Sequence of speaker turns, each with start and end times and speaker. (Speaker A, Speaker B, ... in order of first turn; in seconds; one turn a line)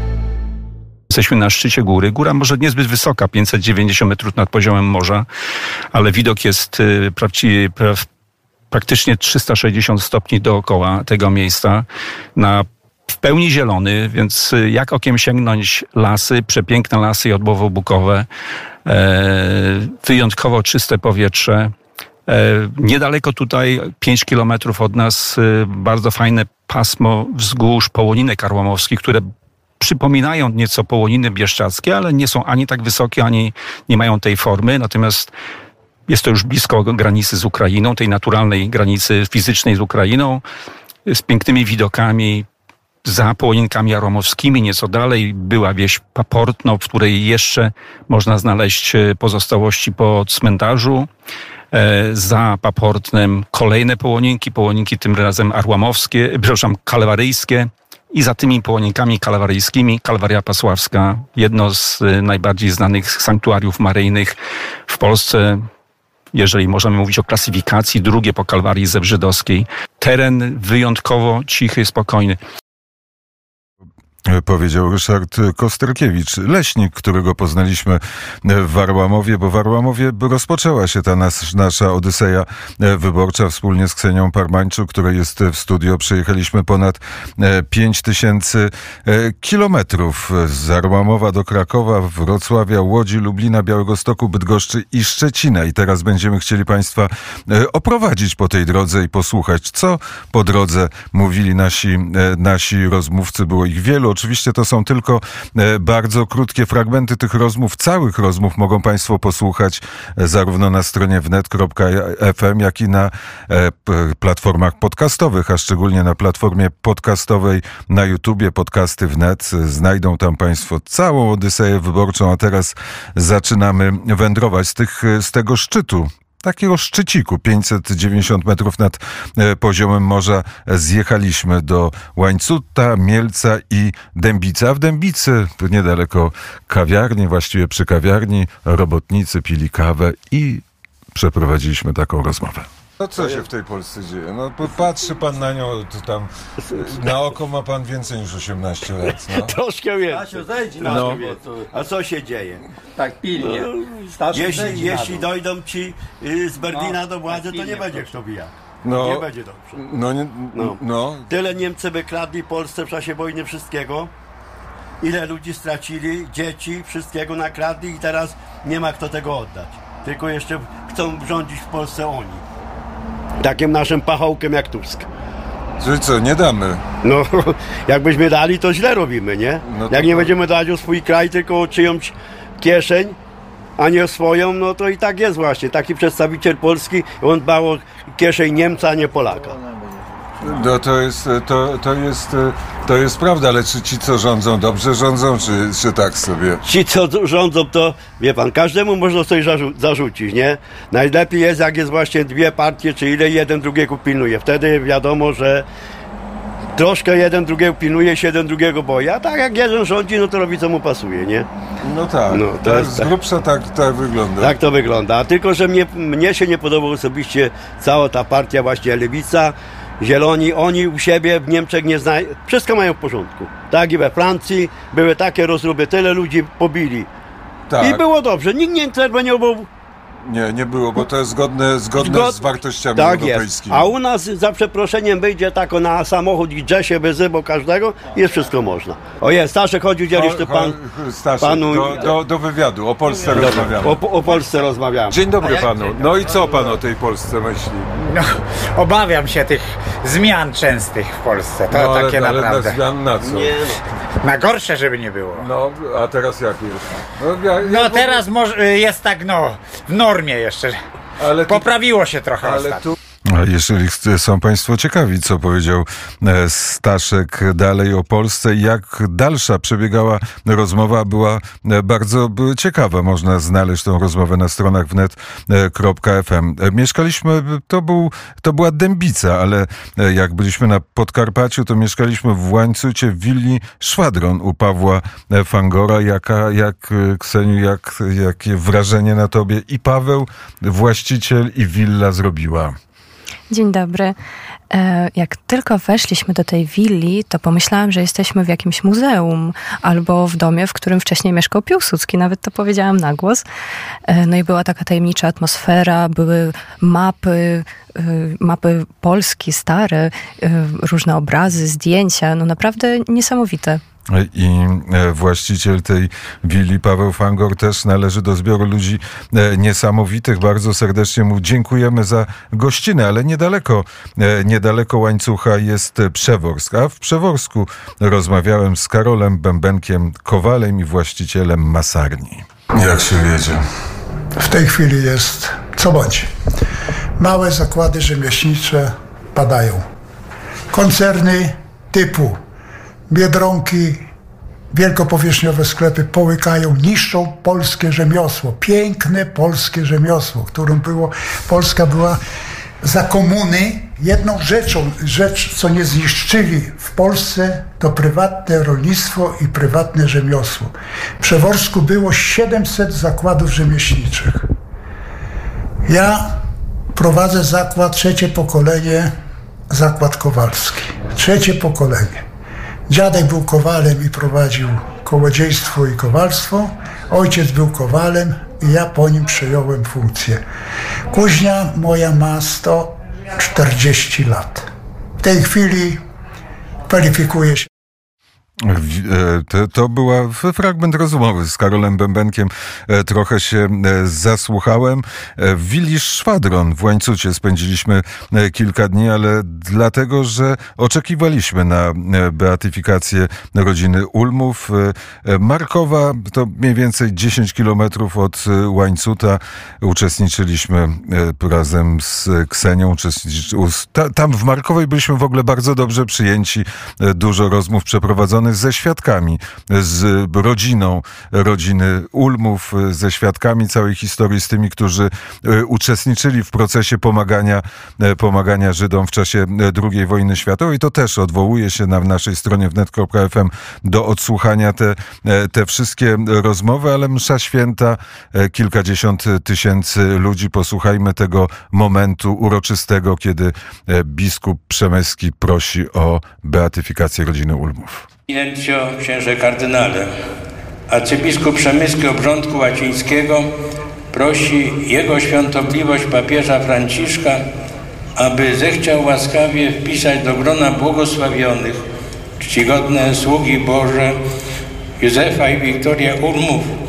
Speaker A: 1.1-5.3
Speaker A: 5.9-8.1
Speaker A: 8.7-18.3
Speaker A: 18.8-21.7
Speaker A: 22.3-29.3
Speaker A: 29.8-35.3
Speaker A: 36.1-40.4
Speaker A: 41.0-42.5
Speaker A: 43.0-51.1
Speaker A: 51.7-65.7
Speaker A: 66.3-72.4
Speaker B: 74.2-149.5
Speaker C: 143.2-143.4
Speaker C: 146.7-147.2
Speaker C: 149.0-152.6
Speaker D: 150.1-151.6
Speaker B: 150.9-151.2
Speaker D: 152.9-155.3
Speaker C: 153.4-159.8
Speaker D: 156.6-158.1
Speaker B: 158.8-159.2
Speaker B: 159.8-161.3
Speaker C: 160.5-164.1
Speaker C: 165.0-172.4
Speaker C: 173.4-175.1
Speaker B: 175.8-176.8
Speaker C: 177.0-183.2
Speaker B: 179.6-180.3
Speaker C: 183.8-189.6
Speaker B: 190.4-196.6
Speaker C: 196.6-205.6
Speaker C: 206.8-211.5
Speaker B: 211.8-214.6
Speaker C: 212.3-213.1
Speaker C: 214.4-227.1
Speaker B: 227.7-228.0
Speaker C: 227.8-229.7
Speaker B: 230.2-233.9
Speaker C: 232.0-240.8
Speaker B: 240.1-244.0
Speaker C: 241.4-242.2
Speaker C: 243.1-246.7
Speaker B: 245.1-247.9
Speaker E: 247.9-252.8
Speaker B: 251.7-253.5
Speaker C: 253.2-253.8
Speaker E: 254.2-255.5
Speaker B: 255.4-258.2
Speaker E: 257.6-260.8
Speaker B: 261.2-261.7
Speaker E: 261.4-262.8
Speaker B: 262.4-292.8
Speaker F: 293.5-294.2
Speaker F: 294.7-303.4
Speaker F: 304.1-313.8
Speaker B: 314.1-333.6
Speaker G: 334.4-336.3
Speaker G: 337.2-339.9
Speaker G: 340.7-342.4
Speaker G: 343.1-344.0
Speaker G: 344.7-352.2
Speaker G: 352.8-364.5
Speaker G: 365.9-366.4
Speaker G: 366.9-369.1
Speaker G: 369.7-372.2
Speaker G: 372.9-380.4
Speaker G: 381.1-386.0
Speaker G: 386.9-387.7
Speaker B: 388.6-448.1
Speaker H: 448.3-450.1
Speaker H: 450.9-453.5
Speaker H: 454.1-457.4
Speaker H: 458.2-461.8
Speaker H: 462.4-464.2
Speaker H: 465.0-466.8